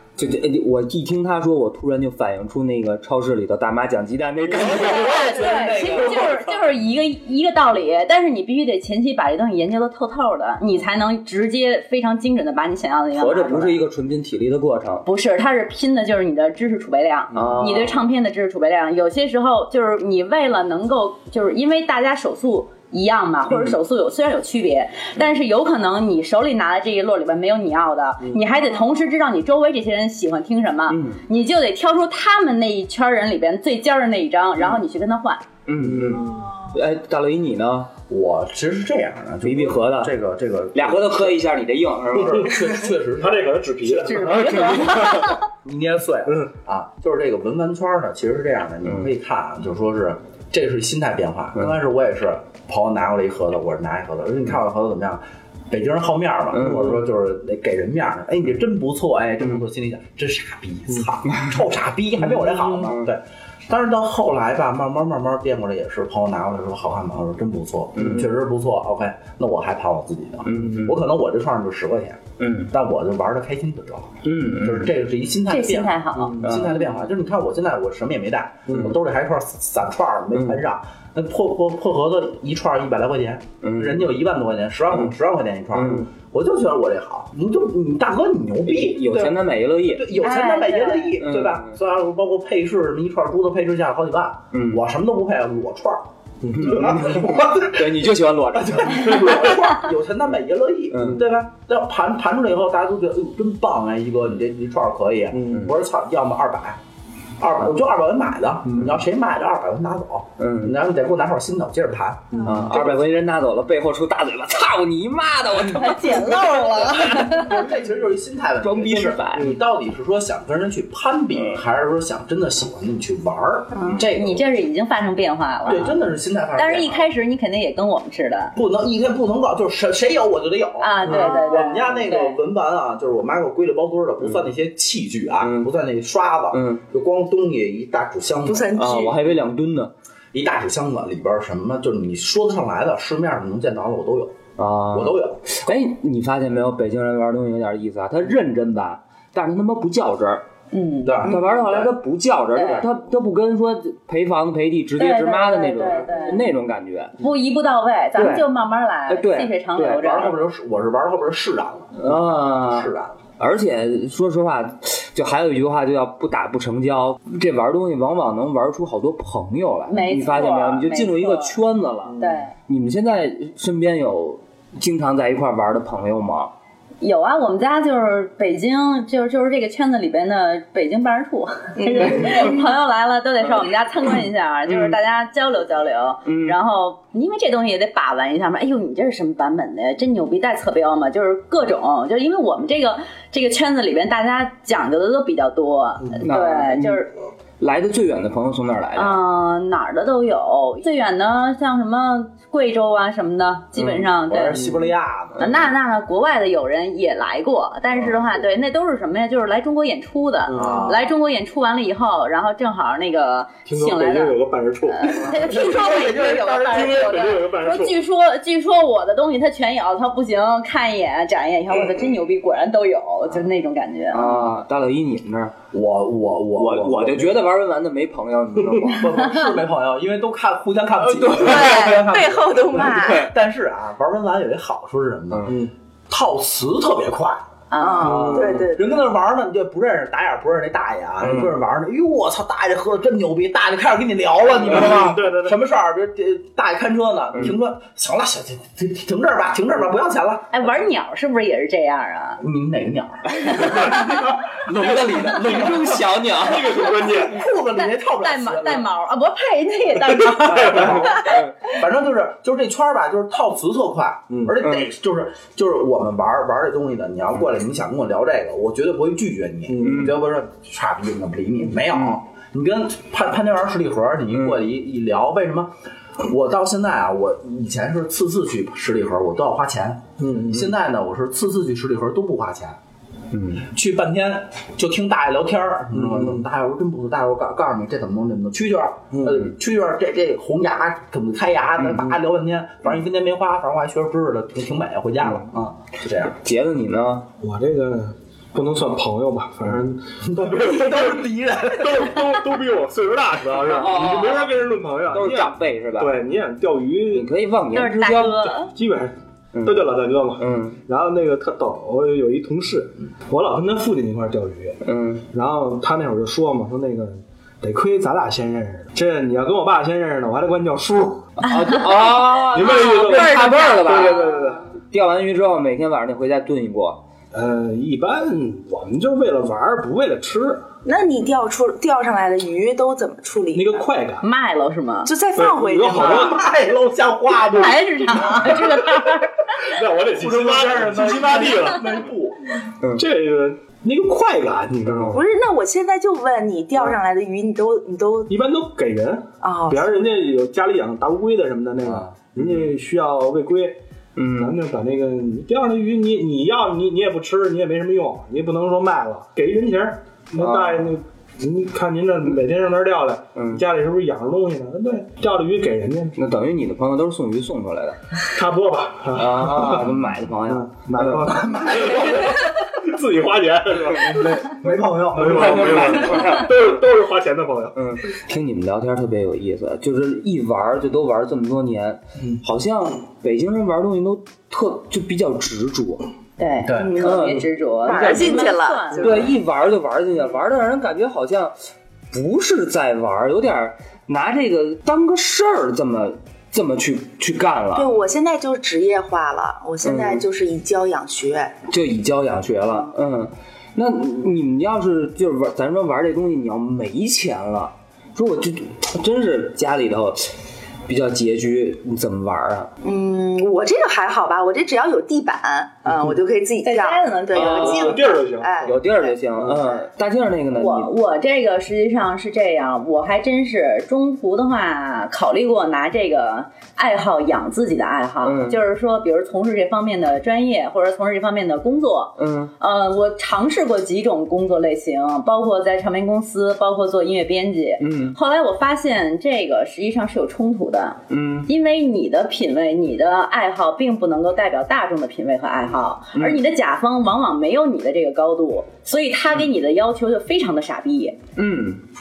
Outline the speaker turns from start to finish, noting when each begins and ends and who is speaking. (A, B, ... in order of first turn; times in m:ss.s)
0:00.2-0:05.4 A
0:04.5-0:06.5 B
0:04.9-0:13.8 C
0:13.1-0:15.1 A
0:15.0-0:35.4 C
0:17.3-0:18.1 A
0:23.5-0:23.8 A
0:30.9-0:31.2 A
0:35.6-0:37.9 A
0:35.8-0:36.3 D
0:36.3-0:36.5 E
0:38.1-0:41.4 B
0:39.4-0:40.1 A
0:40.7-0:42.6 A
0:42.1-0:43.9 B
0:42.3-0:45.3 D
0:44.0-0:45.4 C
0:45.6-1:46.8 B
0:56.5-0:57.0 A
1:02.6-1:03.1 A
1:08.0-1:08.3 A
1:10.4-1:11.0 A
1:12.4-1:12.7 A
1:14.2-1:14.9 A
1:15.5-1:16.5 C
1:16.4-1:16.9 A
1:20.3-1:20.6 A
1:23.6-1:24.1 A
1:25.7-1:26.1 A
1:28.7-1:30.1 A
1:30.1-1:31.2 C
1:31.2-1:31.7 A
1:34.5-1:34.8 A
1:36.4-1:37.0 D
1:36.6-1:39.6 A
1:40.9-1:41.2 A
1:45.3-1:45.7 D
1:47.4-1:52.5 B
1:50.4-1:50.8 A
1:52.3-1:52.8 D
1:52.4-1:57.5 A
1:55.7-1:57.6 C
1:56.7-2:04.4 B
1:58.6-1:59.5 A
2:03.9-2:05.9 C
2:05.6-2:07.1 B
2:06.6-2:08.6 C
2:08.5-2:18.8 B
2:10.8-2:12.4 C
2:11.1-2:11.6 E
2:15.4-2:15.7 A
2:16.5-2:16.8 A
2:18.4-2:19.2 E
2:18.7-2:19.9 A
2:20.3-2:25.5 B
2:24.6-2:30.4 A
2:30.7-2:31.4 C
2:31.0-2:31.9 B
2:31.2-2:37.2 A
2:32.5-2:32.9 C
2:35.0-2:36.5 C
2:37.2-2:40.4 C
2:38.2-2:38.5 A
2:39.1-2:40.2 A
2:40.0-2:43.2 B
2:42.0-2:56.5 A
2:49.9-2:51.6 C
2:52.1-2:52.4 D
2:52.2-2:52.5 C
2:57.0-3:17.1 C
3:01.8-3:02.5 E
3:04.7-3:05.0 A
3:06.2-3:06.6 A
3:16.2-3:19.2 A
3:18.9-3:24.6 C
3:23.8-3:24.1 A
3:24.3-3:25.5 B
3:24.6-3:24.8 D
3:25.4-3:44.5 C
3:30.5-3:30.9 D
3:30.5-3:31.0 B
3:33.6-3:35.4 D
3:35.4-3:37.0 B
3:36.1-3:38.0 D
3:44.1-3:45.5 A
3:45.7-3:47.4 B
3:46.6-3:49.2 A
3:48.9-3:55.6 B
3:51.2-3:52.2 A
3:51.2-3:53.3 E
3:52.8-3:53.2 A
3:55.5-3:55.7 D
3:56.1-3:57.5 B
3:57.7-3:58.3 C
3:57.8-3:59.0 E
3:58.0-3:58.7 D
3:58.1-4:10.5 B
4:01.2-4:01.5 A
4:04.6-4:05.6 D
4:10.5-4:12.4 C
4:12.4-4:14.0 B
4:13.5-4:17.0 A
4:14.8-4:16.0 B
4:16.4-4:17.4 D
4:16.7-4:18.9 B
4:17.8-4:21.4 C
4:20.3-4:21.0 D
4:20.5-4:42.8 B
4:24.3-4:24.6 D
4:24.6-4:24.9 A
4:29.7-4:30.1 D
4:29.8-4:30.2 A
4:40.2-4:40.7 D
4:43.3-4:43.7 A
4:43.6-4:56.4 B
4:46.0-4:46.4 D
4:49.1-4:49.4 D
4:51.8-4:52.1 A
4:56.4-4:57.3 A
4:57.4-5:01.2 D
5:00.2-5:02.3 B
5:01.7-5:07.3 D
5:03.6-5:04.5 A
5:05.1-5:06.2 A
5:07.1-5:08.5 A
5:07.7-5:08.7 C
5:08.6-5:21.3 D
5:09.5-5:10.8 A
5:14.8-5:15.2 A
5:21.4-5:27.0 A
5:21.4-5:24.5 C
5:22.5-5:24.7 D
5:27.3-5:30.6 D
5:30.8-5:33.9 E
5:33.5-5:34.2 D
5:34.2-5:35.1 C
5:35.0-5:36.4 E
5:35.3-5:36.4 D
5:35.9-5:38.6 B
5:37.5-5:39.4 C
5:38.4-5:39.0 D
5:39.6-5:42.0 D
5:40.1-5:42.6 B
5:42.9-5:45.3 D
5:45.1-5:48.3 E
5:48.3-5:53.8 D
5:49.4-5:50.3 E
5:54.2-5:54.6 A
5:54.3-6:06.2 D
6:00.4-6:00.9 A
6:03.3-6:03.6 A
6:06.2-6:08.2 A
6:08.2-6:17.8 D
6:09.1-6:11.3 A
6:11.4-6:12.3 B
6:14.5-6:15.9 B
6:15.2-6:16.8 A
6:17.7-6:26.1 A
6:26.4-6:29.4 C
6:26.6-6:27.0 B
6:26.9-6:31.5 A
6:27.8-6:29.4 E
6:32.1-6:38.0 A
6:37.7-6:41.6 E
6:39.8-6:40.2 A
6:41.7-6:50.3 A
6:50.9-6:52.7 A
6:52.8-6:59.1 E
6:56.6-6:58.1 C
6:57.3-6:58.0 A
6:57.4-6:58.7 D
6:58.6-7:00.9 A
7:00.5-7:31.2 C
7:08.2-7:08.6 A
7:12.2-7:12.5 A
7:17.8-7:18.2 A
7:21.1-7:21.5 A
7:26.1-7:26.4 A
7:31.4-7:31.8 A